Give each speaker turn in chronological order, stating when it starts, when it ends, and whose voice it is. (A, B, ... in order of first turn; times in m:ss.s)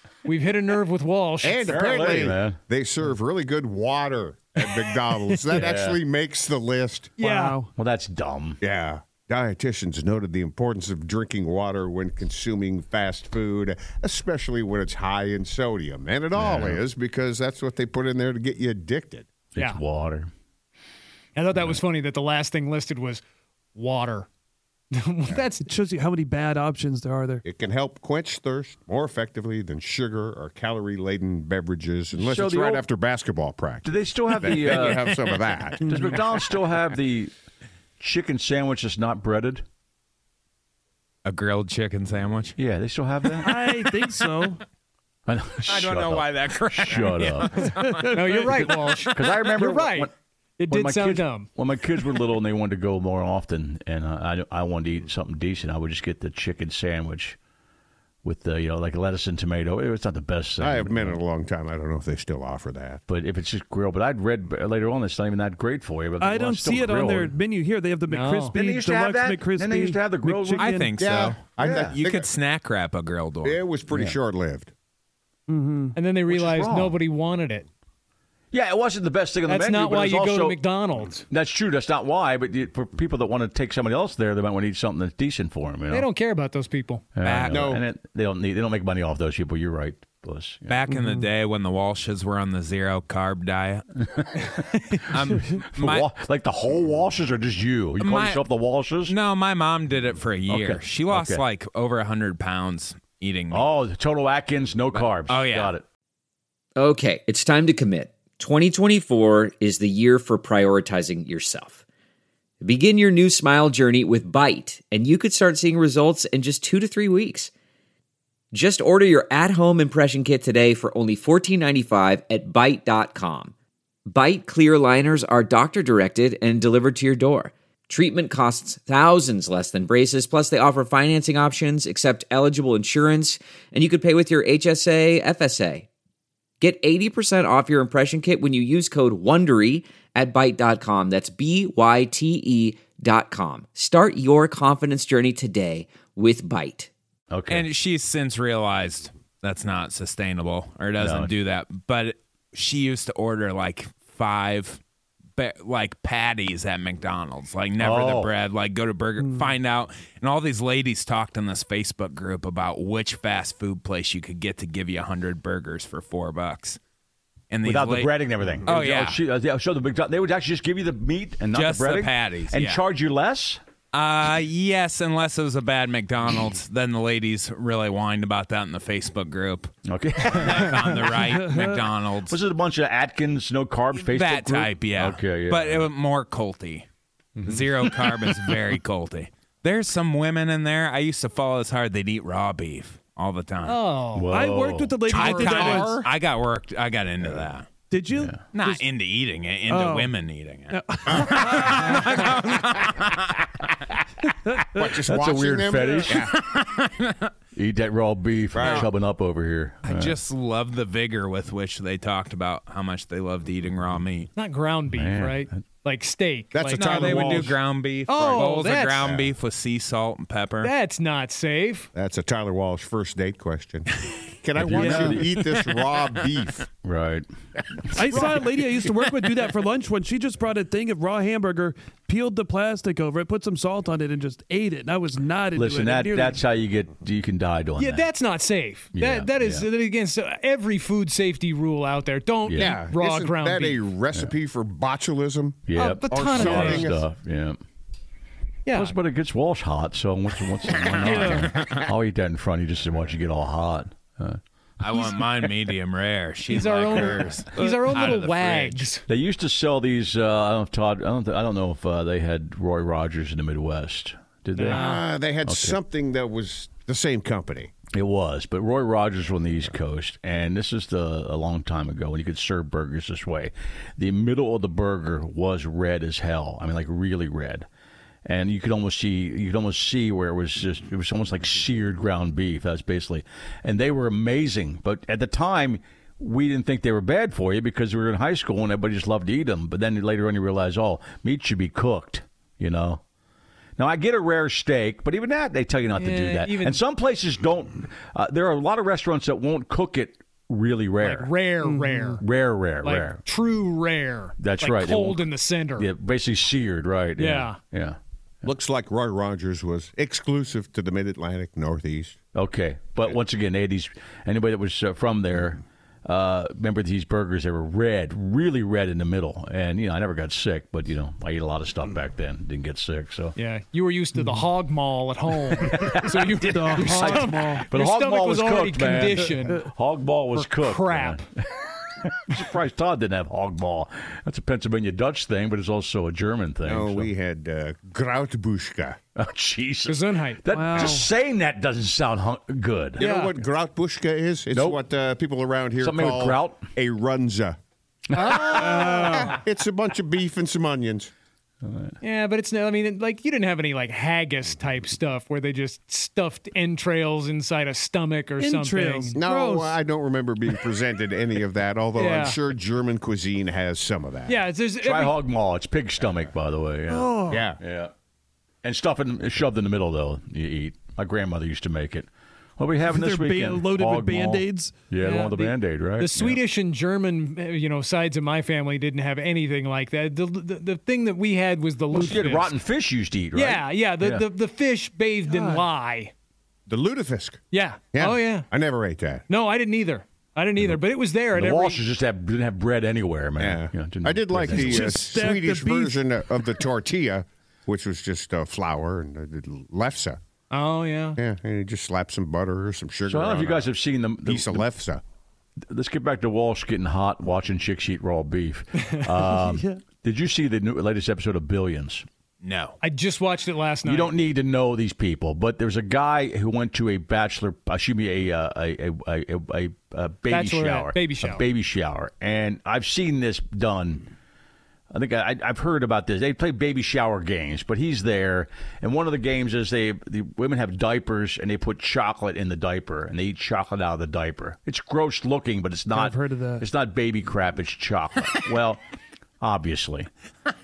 0:00.2-0:01.9 A
0:01.4-0:07.2 B
0:01.7-0:02.6 C
0:05.5-0:06.0 C
0:07.2-0:07.7 D
0:07.2-0:07.6 A
0:07.8-0:08.6 C
0:08.6-0:19.3 B
0:16.4-0:16.8 C
0:19.5-0:20.3 C
0:21.4-0:23.2 A
0:23.8-0:24.3 A
0:25.0-0:25.7 A
0:25.6-0:27.4 D
0:27.4-0:35.8 B
0:32.1-0:32.9 C
0:33.8-0:35.0 C
0:34.4-0:35.2 E
0:35.8-0:37.3 C
0:35.8-0:36.1 D
0:38.0-0:39.6 C
0:41.2-0:42.6 E
0:42.6-0:43.7 C
0:43.4-0:44.6 D
0:45.3-0:47.6 C
0:45.7-0:49.1 E
0:48.0-0:48.6 D
0:48.1-0:51.5 A
0:49.1-0:50.1 C
0:50.7-0:57.4 C
0:58.2-1:01.2 C
1:00.6-1:03.0 B
1:03.1-1:07.4 C
1:06.2-1:11.0 D
1:08.1-1:08.6 A
1:08.5-1:10.7 C
1:10.6-1:13.6 E
1:11.0-1:12.3 B
1:11.6-1:12.0 C
1:13.4-1:14.7 B
1:13.9-1:14.2 C
1:15.5-1:16.0 D
1:16.0-1:17.7 A
1:16.3-1:17.0 C
1:18.5-1:20.6 C
1:19.5-1:21.2 A
1:21.3-1:26.1 C
1:25.9-1:27.0 A
1:27.2-1:30.8 C
1:27.2-1:27.8 E
1:27.5-1:27.8 B
1:30.7-1:33.9 E
1:30.9-1:31.3 D
1:34.1-1:39.2 C
1:35.0-1:36.1 E
1:38.0-1:38.5 E
1:39.0-1:43.7 E
1:40.5-1:41.4 C
1:43.5-1:45.9 C
1:44.9-1:45.8 E
1:46.8-1:51.8 F
1:52.6-1:57.5 F
1:58.5-2:03.5 F
2:04.1-2:15.9 F
2:16.6-2:26.9 F
2:27.3-2:27.7 C
2:27.5-2:34.8 E
2:31.0-2:31.4 C
2:35.4-2:46.8 E
2:37.8-2:38.3 C
2:39.2-2:39.5 D
2:47.5-2:49.2 E
2:47.6-2:53.6 C
2:51.5-2:52.8 E
2:53.9-2:59.7 E
2:59.8-3:01.0 C
3:00.3-3:02.4 E
3:01.2-3:01.8 D
3:02.3-3:05.9 C
3:04.0-3:06.9 E
3:07.4-3:08.3 C
3:07.4-3:13.8 E
3:13.6-3:14.4 A
3:14.2-3:15.2 C
3:14.3-3:16.0 D
3:15.1-3:17.7 E
3:15.6-3:16.1 B
3:17.2-3:17.5 B
3:17.9-3:18.8 D
3:18.1-3:18.4 C
3:18.5-3:23.5 E
3:19.7-3:20.2 D
3:20.7-3:22.4 D
3:21.1-3:22.0 B
3:24.5-3:24.9 D
3:24.7-3:26.4 B
3:25.0-3:26.4 C
3:26.1-3:27.2 E
3:27.6-3:30.2 C
3:28.5-3:28.9 B
3:28.6-3:28.9 E
3:29.8-3:34.3 E
3:34.4-3:37.4 A
3:34.9-3:35.6 C
3:36.5-3:37.6 B
3:36.7-3:40.7 E
3:38.1-3:39.1 A
3:39.0-3:39.3 B
3:40.6-3:41.9 A
3:41.9-3:46.7 B
3:44.6-3:45.4 C
3:44.7-3:45.1 D
3:46.8-3:47.3 C
3:47.9-3:56.4 D
3:48.1-3:48.4 A
3:55.6-3:58.1 C
3:57.8-4:03.8 A
3:58.9-3:59.7 C
4:02.4-4:02.8 C
4:02.6-4:07.0 B
4:05.7-4:07.6 C
4:05.7-4:06.9 A
4:08.7-4:09.0 A
4:08.7-4:14.4 C
4:10.8-4:11.9 E
4:11.0-4:11.5 D
4:14.8-4:18.9 E
4:14.9-4:15.2 A
4:16.5-4:19.1 A
4:16.9-4:17.3 B
4:17.6-4:17.8 D
4:19.1-4:24.9 C
4:24.6-4:25.1 A
4:24.7-4:27.7 B
4:25.4-4:25.8 C
4:27.9-4:37.7 C
4:38.3-4:53.0 C
4:53.8-5:01.3 C
4:56.0-4:56.8 A
5:01.0-5:02.2 A
5:01.6-5:02.2 D
5:02.2-5:03.2 C
5:02.8-5:05.9 A
5:04.4-5:08.0 C
5:07.2-5:07.6 A
5:08.4-5:12.2 B
5:12.3-5:23.4 C
5:23.4-5:29.7 A
5:25.6-5:37.1 C
5:26.5-5:27.6 D
5:30.3-5:31.2 A
5:36.7-5:39.0 B
5:39.2-5:43.0 C
5:39.9-5:40.4 A
5:40.5-5:41.1 D
5:43.0-5:47.6 B
5:43.0-5:43.4 A
5:44.5-5:44.8 C
5:45.8-5:46.7 C
5:48.1-5:48.8 C
5:48.2-5:49.4 A
5:48.4-5:51.1 B
5:51.6-5:52.0 C
5:52.0-5:59.2 A
5:58.4-5:59.8 D
5:59.2-6:04.4 B
6:02.0-6:02.4 A
6:04.3-6:05.2 A
6:04.8-6:07.9 C
6:06.9-6:07.5 D
6:07.3-6:07.6 B
6:08.6-6:16.4 C
6:12.8-6:14.8 D
6:15.0-6:22.6 A
6:21.9-6:24.3 C
6:23.3-6:26.1 A
6:25.3-6:25.7 D
6:26.7-6:27.4 B
6:27.5-6:28.5 A
6:27.9-6:29.2 B
6:29.3-6:31.8 A
6:31.3-6:35.0 C
6:33.4-6:40.2 B
6:34.5-6:36.1 D
6:40.5-6:41.2 A
6:41.2-6:45.0 B
6:43.1-6:44.6 C
6:45.7-6:52.1 C
6:49.3-6:49.8 D
6:52.4-6:52.8 E
6:52.8-6:54.2 A
6:53.8-7:04.1 C
7:00.3-7:01.4 A
7:04.9-7:18.8 C
7:15.9-7:16.6 D
7:19.4-7:20.1 C